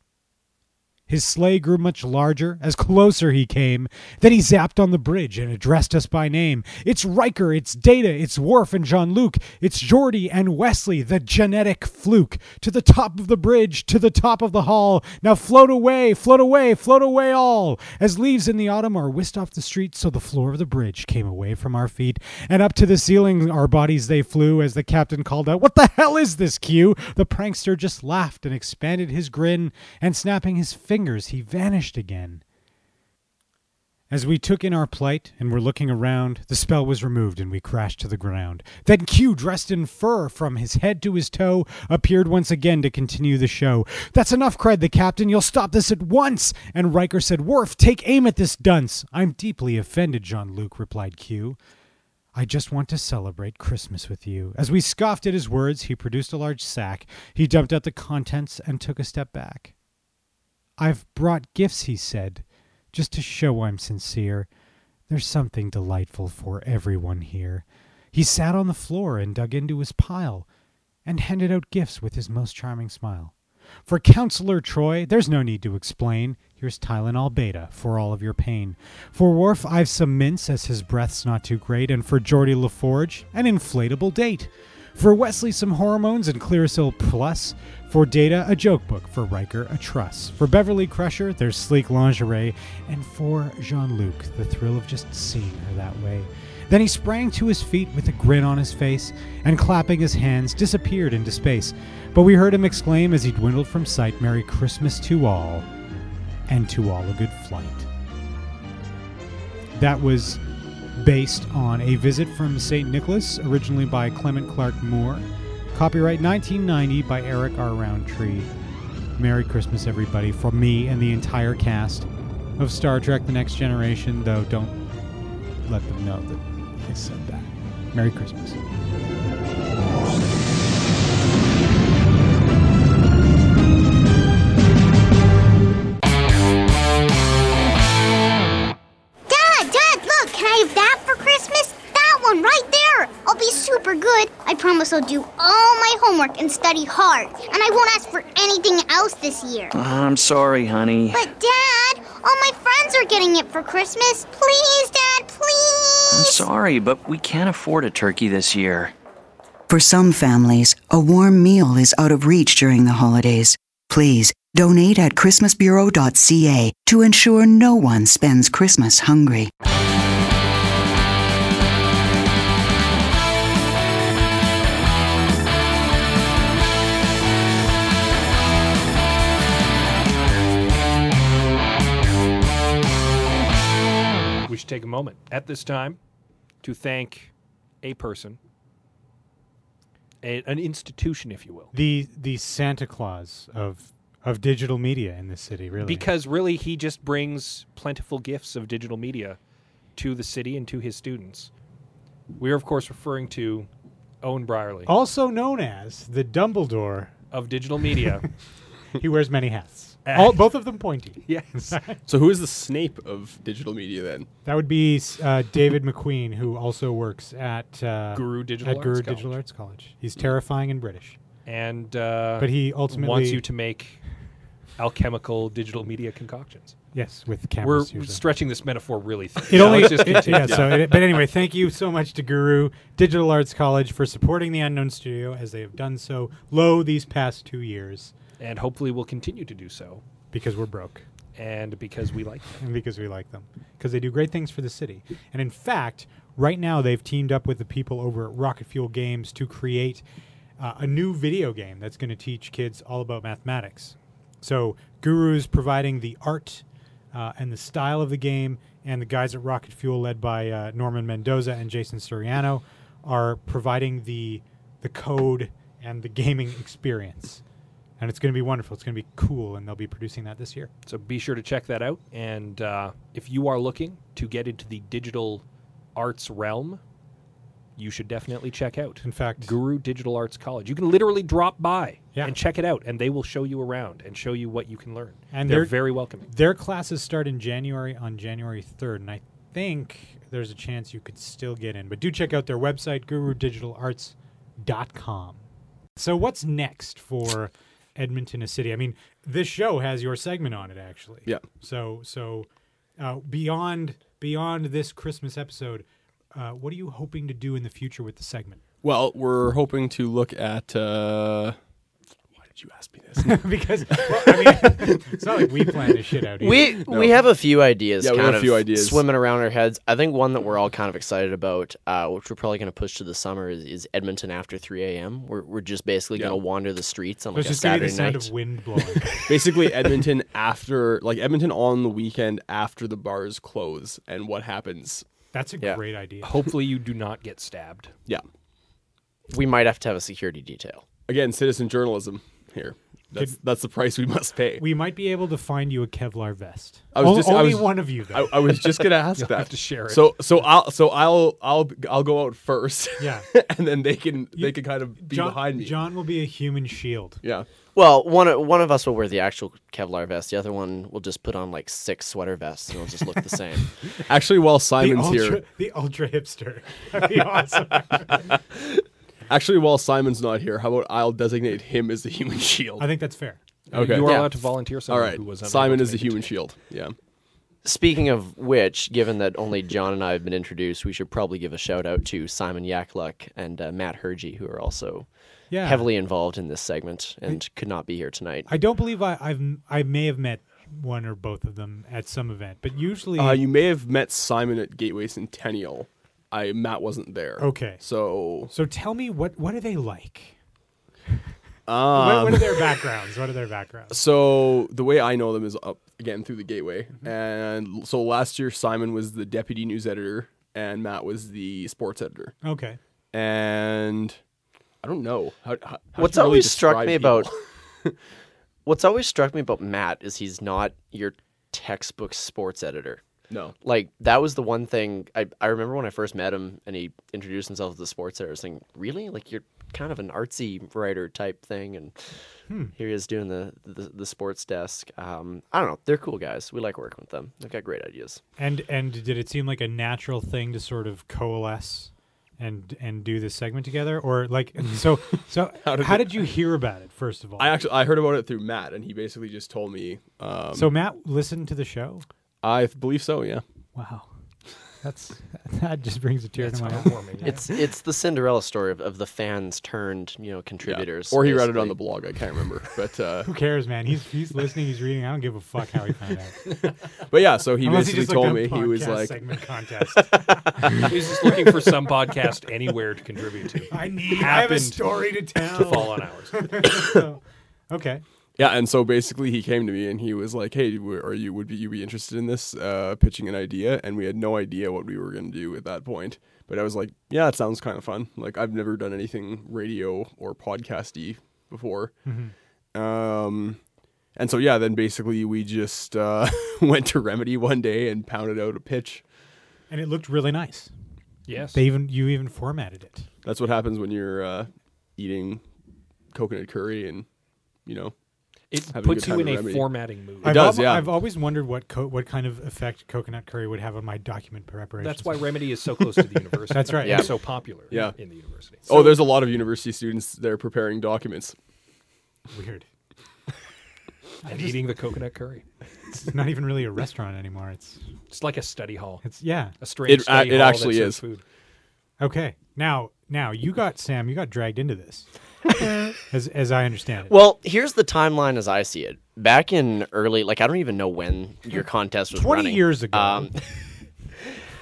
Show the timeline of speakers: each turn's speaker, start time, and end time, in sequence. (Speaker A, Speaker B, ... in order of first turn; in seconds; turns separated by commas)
Speaker A: 1.1-32.4, Speaker A: 34.1-51.6, Speaker A: 52.4-59.7, Speaker A: 60.8-64.5, Speaker A: 65.1-70.5, Speaker A: 71.0-73.3, Speaker A: 73.9-105.7, Speaker A: 106.5-107.9, Speaker A: 109.7-110.4, Speaker A: 111.0-118.5, Speaker A: 119.2-124.8, Speaker A: 125.7-128.6, Speaker B: 139.3-149.7, Speaker C: 149.7-151.3, Speaker B: 151.1-156.5, Speaker C: 156.1-158.9, Speaker D: 159.7-169.5, Speaker E: 184.4-186.0, Speaker E: 186.6-187.3, Speaker E: 187.8-188.4, Speaker E: 190.2-191.7, Speaker A: 191.7-196.1, Speaker E: 195.8-199.4, Speaker E: 199.9-201.5, Speaker E: 202.4-203.7, Speaker E: 204.2-204.9, Speaker A: 204.9-207.1, Speaker E: 207.3-208.2, Speaker A: 209.0-212.0, Speaker E: 210.1-210.5, Speaker E: 211.2-211.8, Speaker F: 212.1-214.3, Speaker A: 214.4-221.2, Speaker E: 218.1-219.3, Speaker E: 221.4-224.0, Speaker A: 222.4-223.4, Speaker E: 224.8-226.8, Speaker A: 226.9-228.2, Speaker E: 227.6-230.9, Speaker A: 229.5-238.1, Speaker F: 229.5-230.8, Speaker E: 238.4-240.0, Speaker A: 240.3-241.1, Speaker E: 241.3-242.5, Speaker A: 242.6-250.0, Speaker A: 250.6-267.4, Speaker A: 268.0-270.7, Speaker E: 270.9-275.4, Speaker E: 275.9-276.8, Speaker E: 277.8-286.3, Speaker A: 279.0-279.5, Speaker A: 285.3-302.5, Speaker A: 303.0-308.6, Speaker F: 308.8-311.6, Speaker F: 312.4-315.9, Speaker A: 313.2-316.7, Speaker G: 316.4-328.3, Speaker F: 316.8-317.2, Speaker F: 318.0-319.1, Speaker A: 327.3-329.6, Speaker F: 329.2-335.1, Speaker A: 335.3-336.4, Speaker E: 336.2-337.9, Speaker G: 339.3-340.9, Speaker F: 341.1-344.6, Speaker A: 344.6-348.7, Speaker F: 346.9-355.8, Speaker E: 349.2-350.1, Speaker A: 353.0-353.3, Speaker A: 354.4-357.2, Speaker G: 357.7-363.7, Speaker F: 364.0-365.4, Speaker A: 364.8-368.3, Speaker F: 368.3-368.7, Speaker F: 369.3-372.9, Speaker A: 372.8-373.4, Speaker E: 373.7-376.3, Speaker F: 373.7-376.9, Speaker G: 377.6-385.1, Speaker A: 385.5-385.9, Speaker G: 385.6-388.5, Speaker A: 388.5-393.4, Speaker F: 393.1-398.5, Speaker A: 397.4-397.8, Speaker A: 398.4-400.4, Speaker F: 401.7-402.7, Speaker A: 401.9-404.0, Speaker F: 403.9-412.4, Speaker A: 412.4-412.8, Speaker F: 413.1-414.2, Speaker F: 414.8-417.9, Speaker G: 415.9-417.3, Speaker G: 418.6-423.0, Speaker F: 423.3-423.6, Speaker G: 423.6-432.2, Speaker A: 432.5-432.7, Speaker G: 432.7-438.2, Speaker A: 438.4-447.6, Speaker F: 445.5-446.3, Speaker F: 447.4-450.7, Speaker A: 450.5-452.1, Speaker F: 452.4-453.4, Speaker A: 453.7-454.1, Speaker A: 454.6-457.4, Speaker E: 456.4-457.5, Speaker G: 457.2-461.8, Speaker F: 460.6-463.3, Speaker A: 463.2-466.4, Speaker F: 466.5-469.3, Speaker A: 467.6-470.9, Speaker E: 470.7-476.5, Speaker A: 473.7-478.0, Speaker F: 478.4-491.9, Speaker A: 492.1-492.3, Speaker F: 492.7-493.6, Speaker F: 494.1-499.0, Speaker A: 499.7-500.7, Speaker E: 501.3-501.6, Speaker A: 501.5-503.1, Speaker F: 503.2-505.4, Speaker F: 506.1-507.1, Speaker F: 507.6-507.9, Speaker E: 508.5-510.5, Speaker F: 508.7-510.9, Speaker A: 508.9-509.3, Speaker A: 510.2-515.2, Speaker E: 514.8-518.7, Speaker A: 516.5-517.1, Speaker G: 516.8-517.1, Speaker F: 517.7-518.0, Speaker F: 518.6-521.4, Speaker A: 522.3-522.6, Speaker A: 524.2-524.6, Speaker E: 524.2-525.4, Speaker A: 525.9-527.8, Speaker E: 528.1-529.0, Speaker A: 529.0-529.6, Speaker E: 529.6-531.2, Speaker F: 529.9-531.0, Speaker A: 532.0-535.1, Speaker A: 536.1-537.1, Speaker G: 537.1-543.4, Speaker A: 542.1-543.3